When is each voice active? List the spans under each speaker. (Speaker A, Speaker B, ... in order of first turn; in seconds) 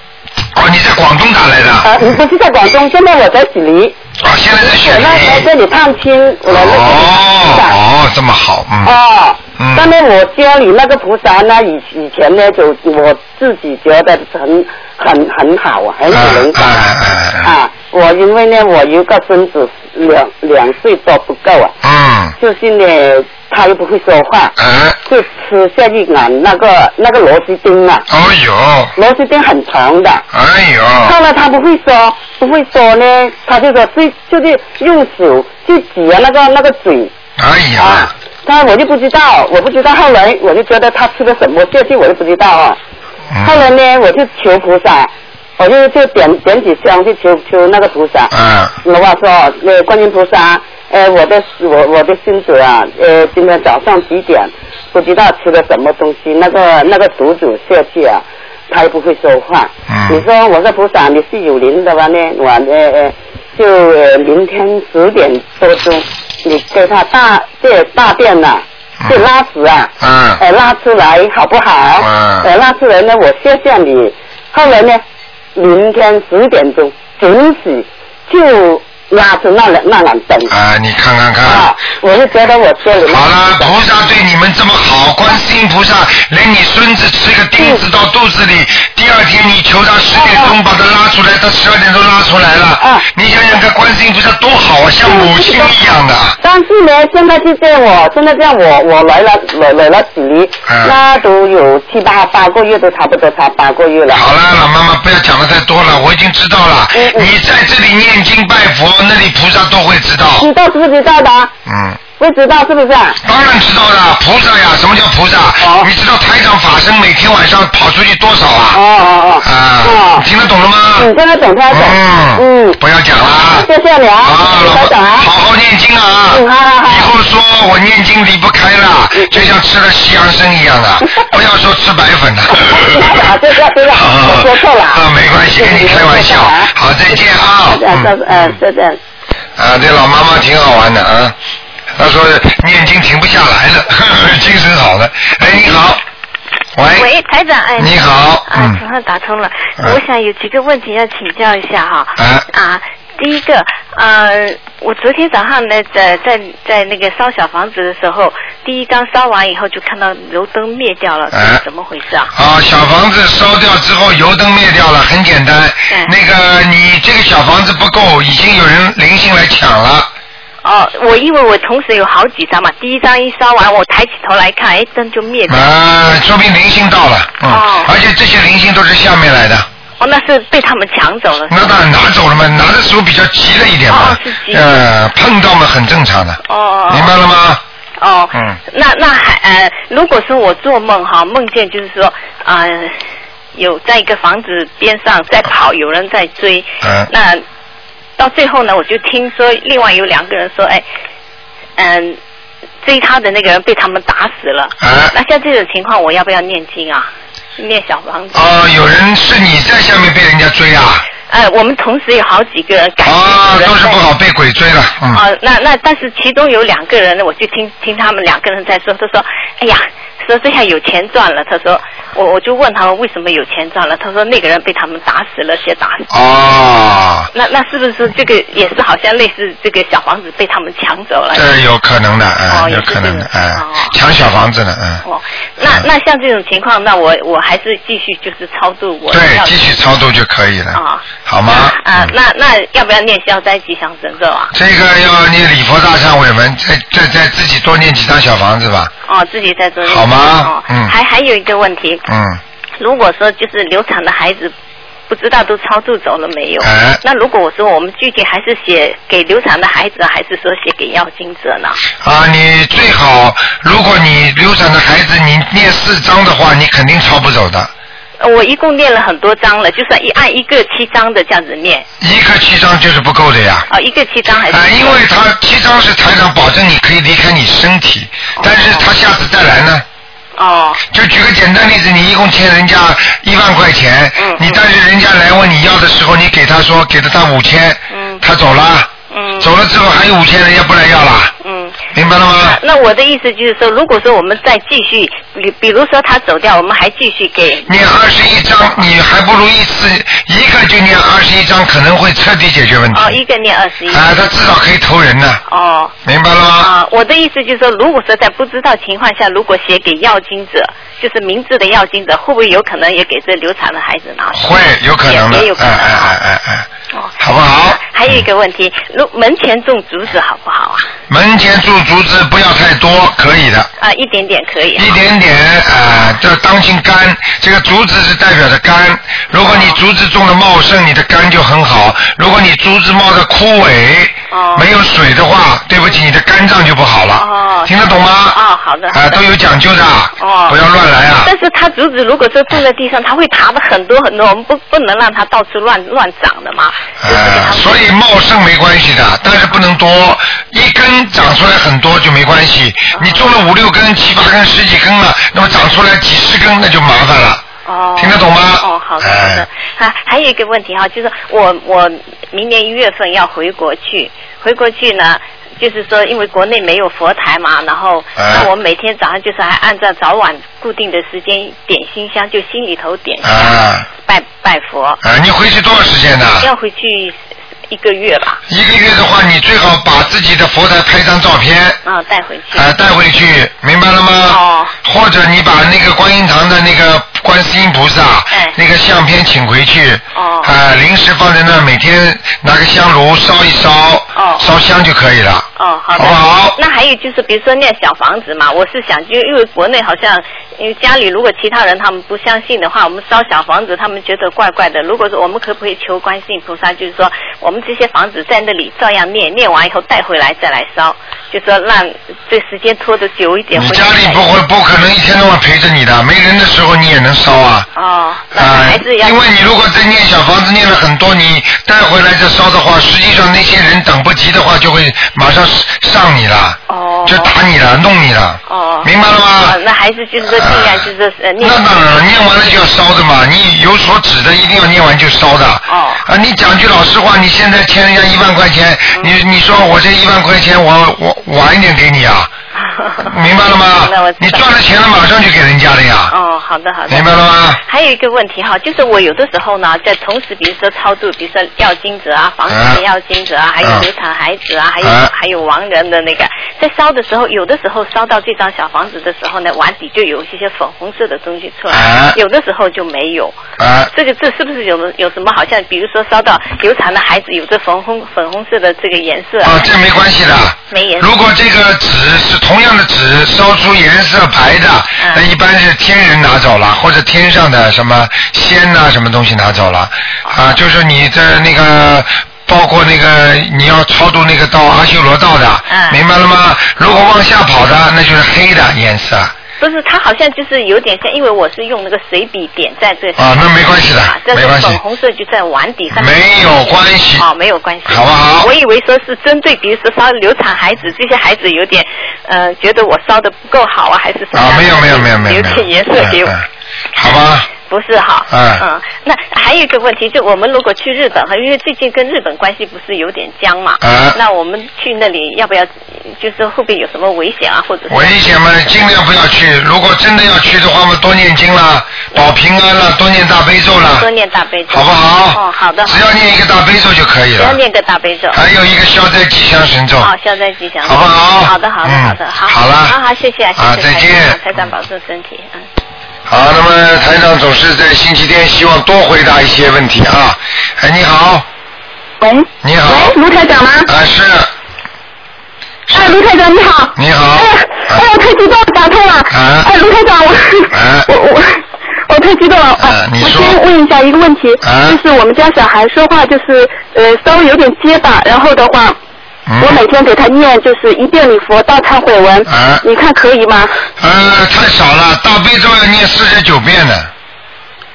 Speaker A: 0.5-2.1, 4.2-5.5, 6.5-8.9, 9.6-9.9, 16.1-17.5, 21.8-22.3, 24.6-25.0, 28.1-28.9, 30.3-31.1, 37.4-38.1, 43.3-43.7, 48.3-48.7, 59.9-60.2, 70.0-70.4, 72.0-72.5, 80.5-81.7, 83.1-96.4, 100.7-101.0, 104.1-110.5, 111.7-112.0, 113.2-118.8, 119.4-121.1, 121.7-123.7, 124.2-133.3, 133.9-138.6, 139.6-141.3, 141.9-146.0, 146.7-147.1, 147.8-148.8, 152.2-152.5, 161.3-161.6, 162.3-170.1, 175.5-179.7, 181.5-187.6, 188.3-188.6, 196.8-197.1, 204.8-205.1, 208.3-211.0, 213.0-215.2, 226.1-227.3, 231.3-235.0, 235.6-235.8, 239.1-242.1, 244.5-248.9, 249.8-250.9, 252.1-252.4, 256.6-257.0, 262.0-267.7, 272.0-273.7, 274.5-279.8, 280.9-291.3, 291.9-292.6, 297.7-303.1, 303.9-305.4, 306.0-306.7, 314.3-316.7, 317.2-318.2, 321.1-323.7, 324.8-338.4, 338.9-341.3, 347.0-357.4, 358.0-359.5, 368.1-368.5, 373.2-373.9, 375.0-376.5, 378.5-381.8, 382.5-396.6, 413.5-417.7, 418.3-429.6, 430.2-430.9, 431.4-442.3, 443.0-446.1, 446.9-447.6, 452.5-452.8, 454.8-455.1, 461.7-462.2, 463.6-463.9, 469.4-489.3, 493.2-494.8, 495.9-497.3, 497.9-498.5, 504.3-506.4, 506.9-507.5, 508.3-508.6, 513.8-514.2, 517.9-524.1, 524.7-527.6, 528.3-530.1, 530.8-533.0, 533.5-534.4, 536.3-541.5, 542.6-543.2, 543.9-544.5, 545.9-546.2, 547.0-548.0, 549.3-549.7, 550.7-551.1, 552.8-553.6, 554.6-555.0, 559.5-559.8, 562.5-562.8, 564.0-567.1
Speaker B: 1.8-3.9, 4.6-7.8, 8.8-16.8, 17.4-21.7, 22.4-24.5, 25.1-28.1, 28.9-30.2, 31.0-37.1, 37.8-42.8, 43.4-48.3, 48.8-75.0, 75.5-80.5, 81.4-83.3, 87.6-87.8, 90.1-90.5, 92.8-93.0, 95.0-95.9, 96.4-104.2, 106.9-107.3, 110.4-111.5, 112.2-113.2, 115.6-115.9, 118.7-120.2, 121.0-125.3, 126.3-127.1, 129.1-129.4, 132.6-136.7, 137.6-139.0
Speaker C: 146.9-162.3, 170.6-175.7, 177.4-177.9, 180.0-181.8, 183.9-184.7, 186.5-187.1, 188.0-193.0, 193.5-197.4, 198.2-200.8, 201.8-202.2, 202.8-208.4, 211.3-214.0, 215.1-226.1, 227.3-231.5, 232.5-233.9, 235.0-239.8, 240.7-244.5, 249.1-252.0, 252.8-254.5, 255.1-261.8, 268.2-271.8, 273.7-275.0, 278.4-278.9, 280.4-280.8, 284.2-284.6, 287.9-288.2, 289.1-289.5, 291.4-297.9, 302.9-304.1, 305.5-305.9, 306.6-316.1, 316.9-320.9, 323.8-325.0, 329.4-329.8, 334.3-334.7, 337.1-339.2, 340.2-340.6, 341.2-347.8, 352.9-353.3, 357.6-375.0, 376.4-377.2, 377.7-378.4, 381.8-382.7, 384.3-384.7, 388.3-388.6, 390.1-390.5, 394.1-394.5, 395.6-414.3, 417.7-419.2, 426.7-427.3, 428.5-432.1, 435.7-436.1, 442.6-443.1, 443.7-444.5, 446.1-463.4, 463.9-469.7, 470.7-471.1, 475.0-475.2, 480.2-480.5, 485.7-486.0, 489.6-506.3, 507.5-518.5, 524.0-526.0, 527.4-528.4, 530.0-535.6
Speaker D: 542.2-543.9, 545.9-559.0, 559.6-563.8